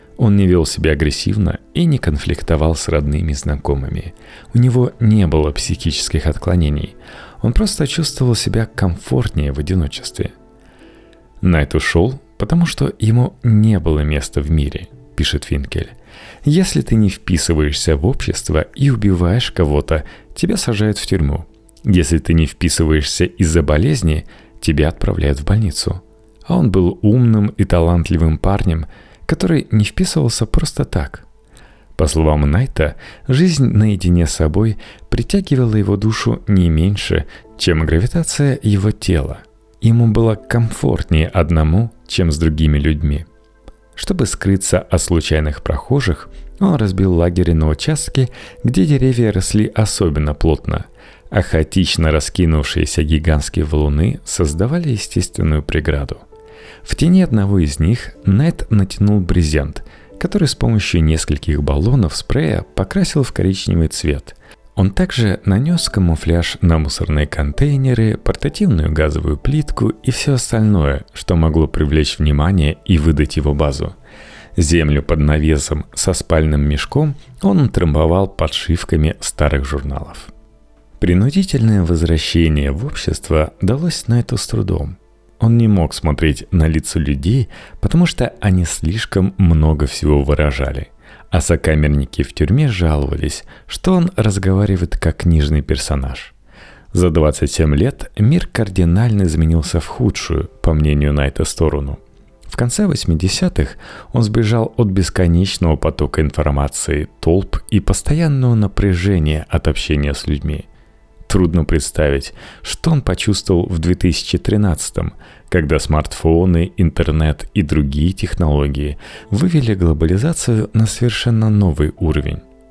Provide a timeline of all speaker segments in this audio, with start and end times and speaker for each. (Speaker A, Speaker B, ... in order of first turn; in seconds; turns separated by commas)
Speaker A: 0.2-10.3, Speaker A: 11.4-31.3, Speaker A: 31.9-43.3, Speaker A: 43.9-56.2, Speaker A: 56.8-73.9, Speaker A: 74.6-80.3, Speaker A: 81.0-96.3, Speaker A: 96.9-110.7, Speaker A: 111.3-122.4